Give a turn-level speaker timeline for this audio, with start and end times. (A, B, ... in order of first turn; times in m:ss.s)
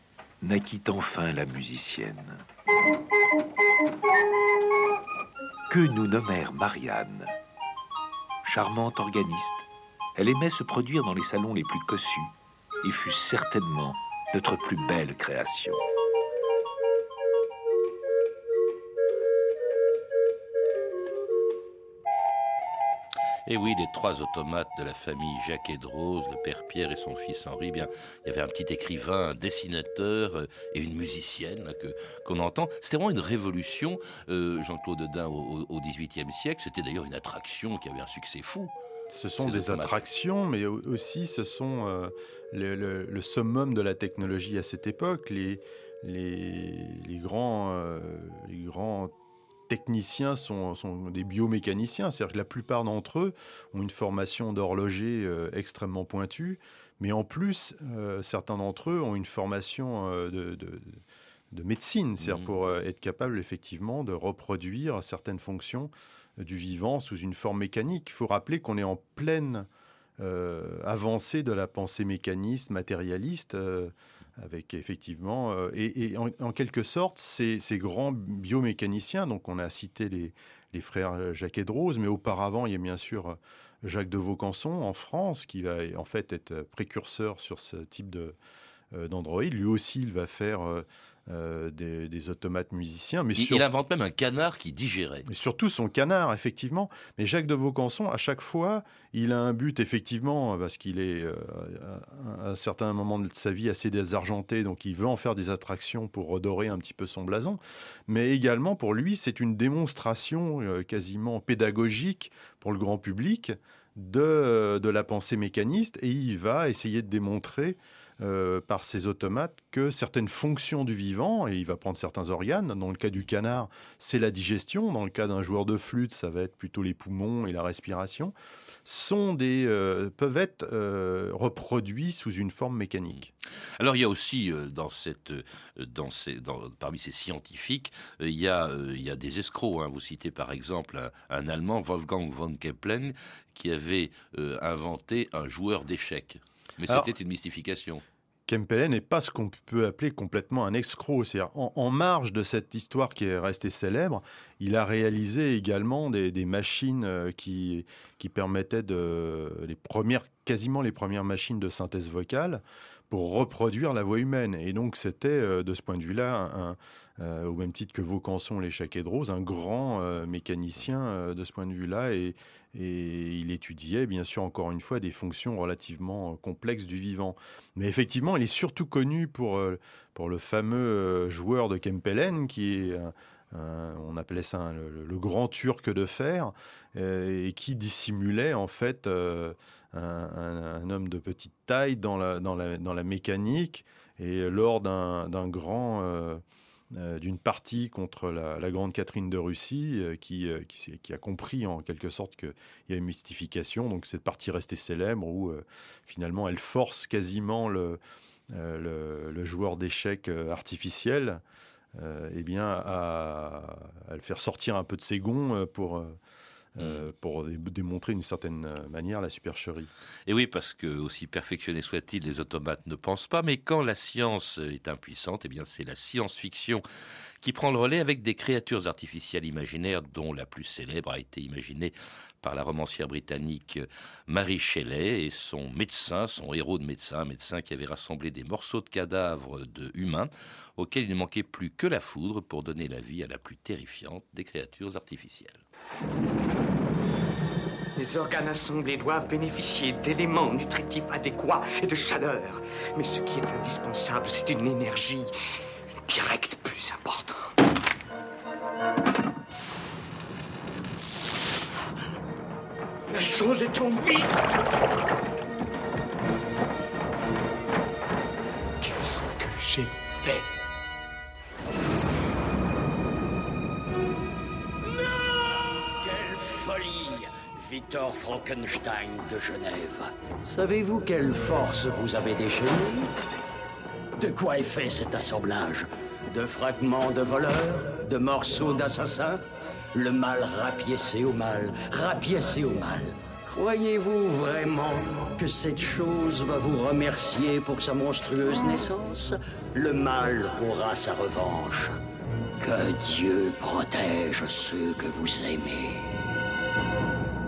0:00.4-0:02.4 A
0:05.7-0:07.3 A
0:08.4-0:15.8 A
0:23.5-0:38.7 B
0:39.1-0:49.1 C
0:39.4-0:40.0 B
0:49.7-1:09.7 C
1:02.2-1:02.5 B
1:10.2-1:28.4 C
1:28.9-1:33.6 C
1:33.4-1:35.2 B
1:35.2-2:08.3 C
2:08.8-2:13.3 C
2:13.8-2:28.0 B
2:28.5-3:28.0 C
3:28.5-3:31.4 C
3:31.9-3:36.2 C
3:36.7-3:39.9 C
3:36.8-3:37.1 B
3:40.3-3:46.8 B
3:47.4-4:05.6 B
4:08.0-4:15.3 D
4:16.0-4:17.5 D
4:23.1-4:24.4 D
4:28.8-4:30.4 D
4:36.0-4:43.1 E
4:44.2-4:49.4 E
4:49.9-5:02.0 E
5:02.6-5:06.2 E